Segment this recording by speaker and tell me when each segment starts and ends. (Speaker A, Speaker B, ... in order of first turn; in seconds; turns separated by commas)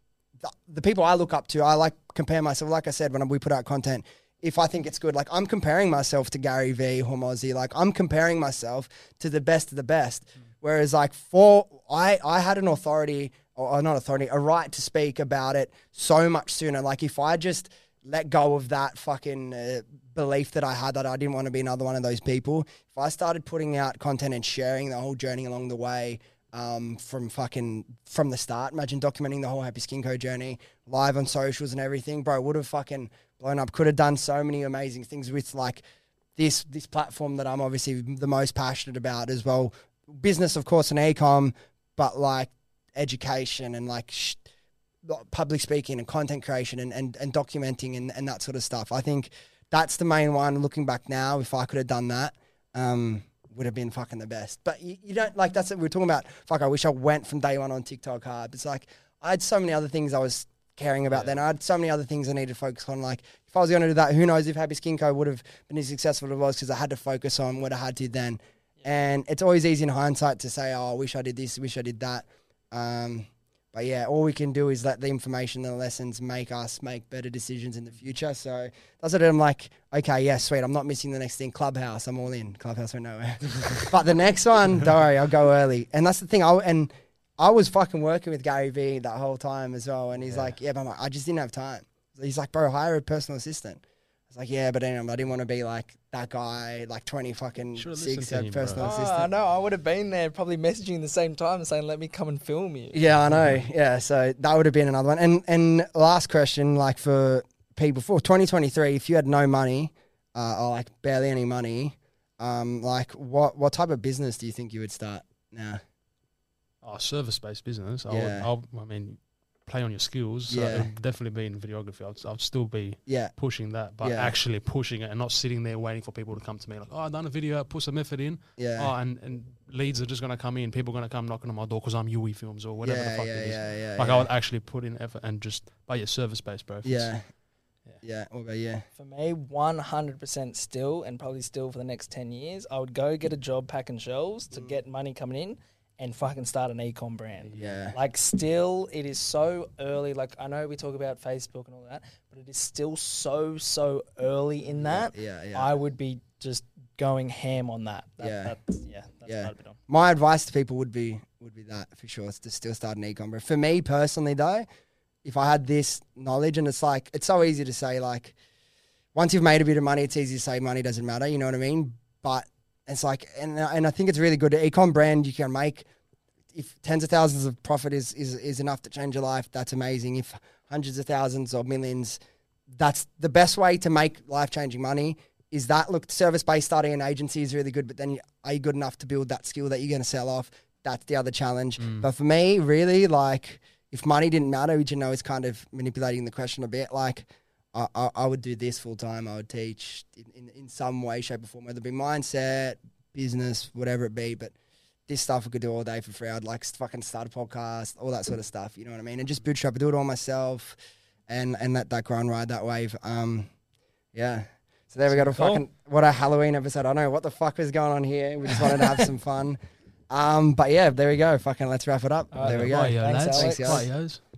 Speaker A: 0.4-35.8, Speaker A: 36.4-44.4, Speaker A: 45.0-99.1, Speaker B: 61.1-61.4, Speaker B: 90.1-90.5, Speaker B: 97.8-99.2, Speaker C: 98.8-103.0, Speaker A: 102.9-115.8, Speaker B: 116.8-137.1, Speaker A: 118.1-118.5, Speaker A: 120.5-120.9, Speaker A: 123.1-123.3, Speaker A: 124.0-124.3, Speaker A: 128.6-128.9, Speaker A: 132.8-134.3, Speaker A: 136.8-137.2, Speaker A: 138.0-138.8, Speaker C: 138.9-159.8, Speaker B: 147.4-147.8, Speaker A: 147.5-147.9, Speaker A: 154.8-155.7, Speaker A: 158.2-158.5, Speaker A: 159.3-164.7, Speaker A: 165.2-168.3, Speaker A: 169.1-175.9, Speaker A: 176.5-182.2, Speaker A: 182.7-204.5, Speaker B: 191.8-192.1, Speaker A: 205.1-210.8, Speaker A: 211.3-213.5, Speaker A: 214.1-219.6, Speaker C: 215.1-215.6, Speaker A: 220.1-223.9, Speaker C: 222.3-223.8, Speaker B: 222.4-224.2